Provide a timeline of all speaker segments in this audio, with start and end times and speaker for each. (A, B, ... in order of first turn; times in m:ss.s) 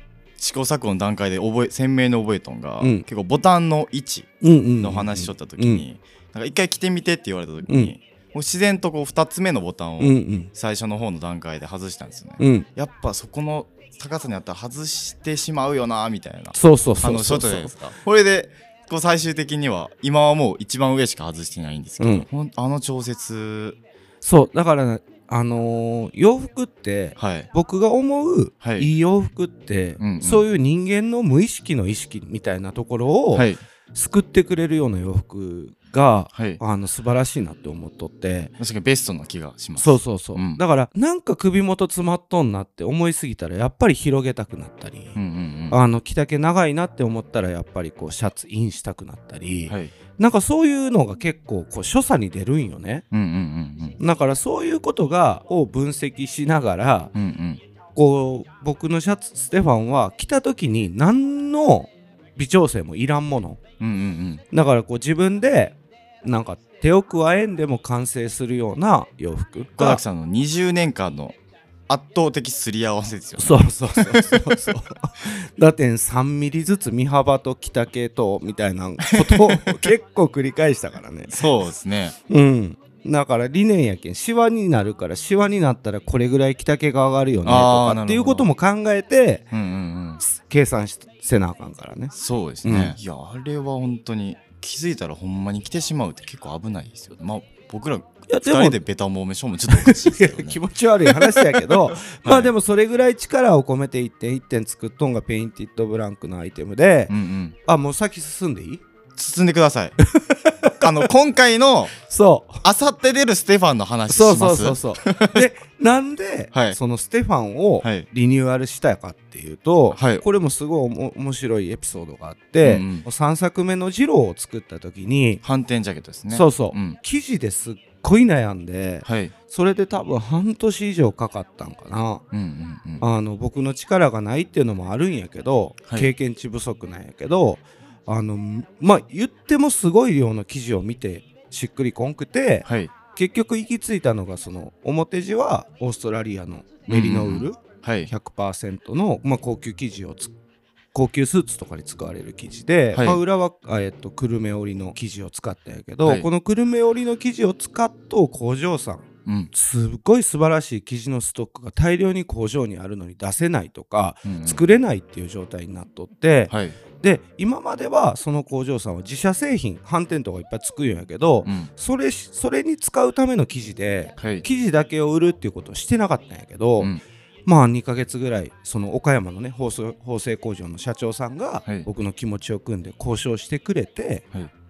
0:00.4-0:23.8 A
0:04.4-0:05.8 B
0:07.7-0:07.9 B
0:10.0-0:10.5 B
0:12.4-0:12.7 B
0:16.5-0:17.7 B
0:22.0-0:22.3 B
0:24.2-0:38.5 B
0:27.2-0:27.5 A
0:28.6-0:28.9 A
0:30.0-0:30.4 A
0:33.3-0:33.6 A
0:36.3-0:36.6 A
0:38.6-0:40.6 A
0:39.8-0:45.2 B
0:45.2-0:45.8 A
0:45.7-0:53.0 B
0:49.7-0:49.9 A
0:53.1-0:54.0 A
0:54.0-0:57.1 B
0:57.2-0:57.6 A
0:58.0-1:03.6 B
1:03.8-1:04.4 A
1:04.5-1:10.0 B
1:09.8-1:11.4 A
1:11.9-1:14.6 A
1:13.4-1:21.5 B
1:19.1-1:19.9 A
1:21.3-1:22.2 A
1:22.3-1:29.5 B
1:27.4-1:28.5 A
1:29.5-1:30.2 A
1:30.2-1:32.1 B
1:32.1-1:42.5 A
1:32.6-1:33.0 B
1:38.3-1:38.8 B
1:39.7-1:47.1 B
1:47.1-1:47.6 A
1:47.6-1:48.8 B
1:49.2-1:50.0 A
1:50.0-1:50.8 B
1:50.8-1:51.9 A
1:52.1-1:52.6 B
1:52.6-1:55.4 A
1:54.1-2:05.4 B
1:56.5-1:56.8 A
1:59.9-2:00.2 A
2:02.6-2:03.1 A
2:05.4-2:07.0 A
2:06.3-2:12.2 B
2:09.0-2:09.3 A
2:12.3-2:13.0 A
2:13.0-2:30.3 B
2:22.6-2:22.9 A
2:26.9-2:28.1 A
2:30.9-2:56.9 B
2:32.9-2:33.2 A
2:44.3-2:44.6 A
2:46.5-2:46.8 A
2:51.4-2:51.7 A
2:54.2-2:54.4 A
2:57.5-3:04.2 B